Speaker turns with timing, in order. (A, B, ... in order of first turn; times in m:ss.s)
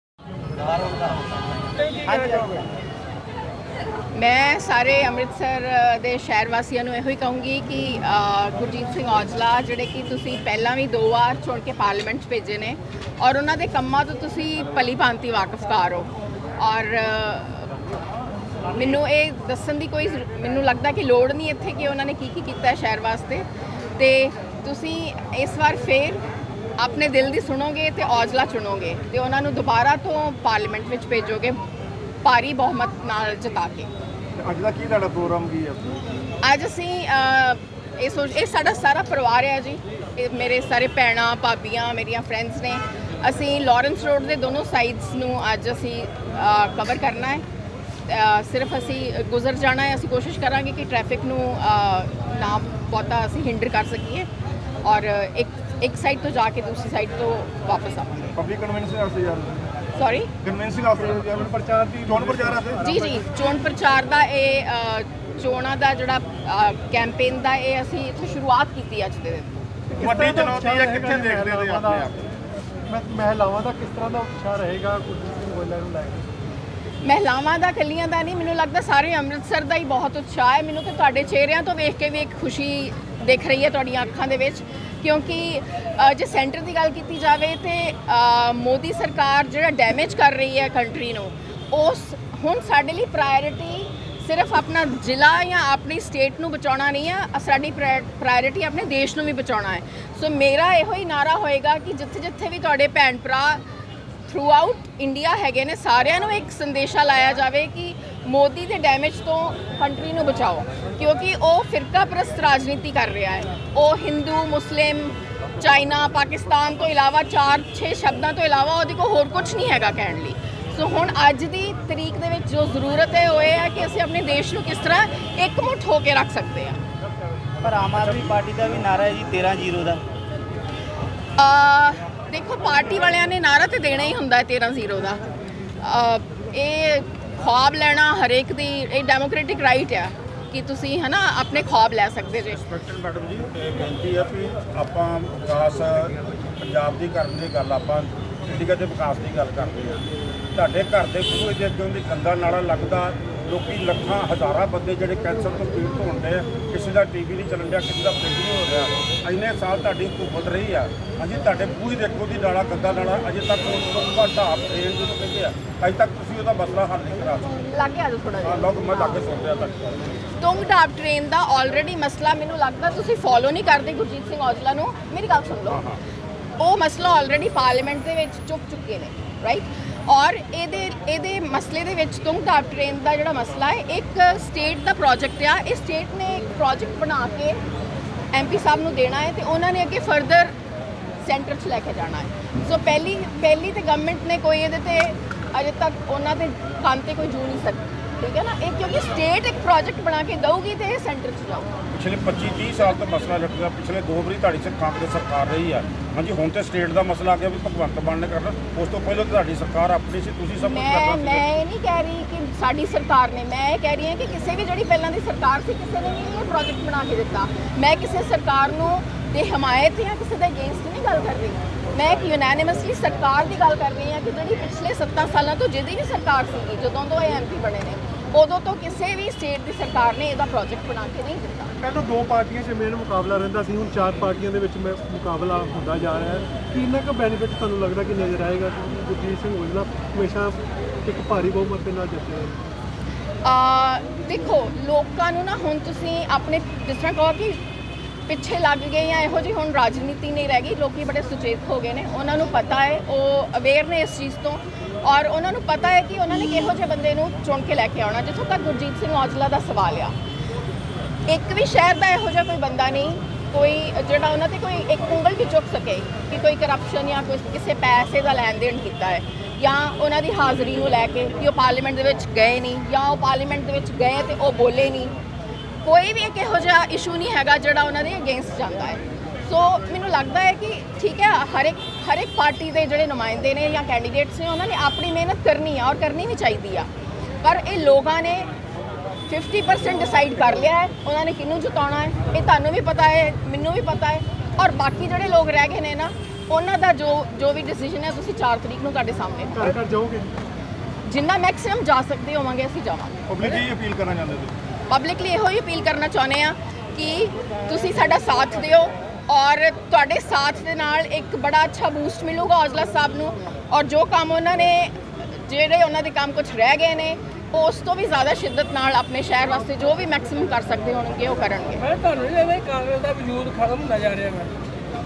0:00.7-0:01.2 A
0:02.0-0:02.6 A
0:04.1-0:17.7 B
0:18.7-0:23.4 B
0:24.0-0:26.2 B
0:26.8-0:31.6 B
0:32.2-0:33.9 B
0:34.4-0:36.0 C
0:36.4-0:47.4 B
0:48.1-0:54.3 B
0:54.8-0:58.3 B
0:58.3-0:59.7 C
1:00.0-1:00.3 B
1:00.4-1:01.5 C
1:01.0-1:03.2 D
1:02.1-1:02.8 C
1:02.8-1:09.6 B
1:09.9-1:12.1 D
1:10.0-1:11.9 C
1:12.9-1:16.2 D
1:17.0-1:43.6 B
1:44.3-2:06.8 B
2:07.6-2:10.0 A
2:11.4-2:15.2 B
2:15.8-2:22.6 B
2:22.5-2:47.6 E
2:47.5-2:49.2 B
2:48.4-2:49.9 E
2:50.4-2:55.8 B
2:55.7-2:56.0 E
2:56.6-3:07.6 B
3:08.3-3:10.5 B
3:11.2-3:21.7 B
3:21.9-3:31.4 E
3:30.6-3:51.7 B
3:51.8-4:02.6 D
4:03.4-4:07.6 B
4:08.3-4:20.1 B
4:21.3-4:35.1 B
4:35.8-4:46.9 B
4:47.4-4:48.5 B
4:49.3-4:59.8 B
4:59.5-5:00.4 D
5:01.0-5:03.6 B
5:03.3-5:04.5 C
5:04.9-5:21.8 B
5:21.8-5:24.5 F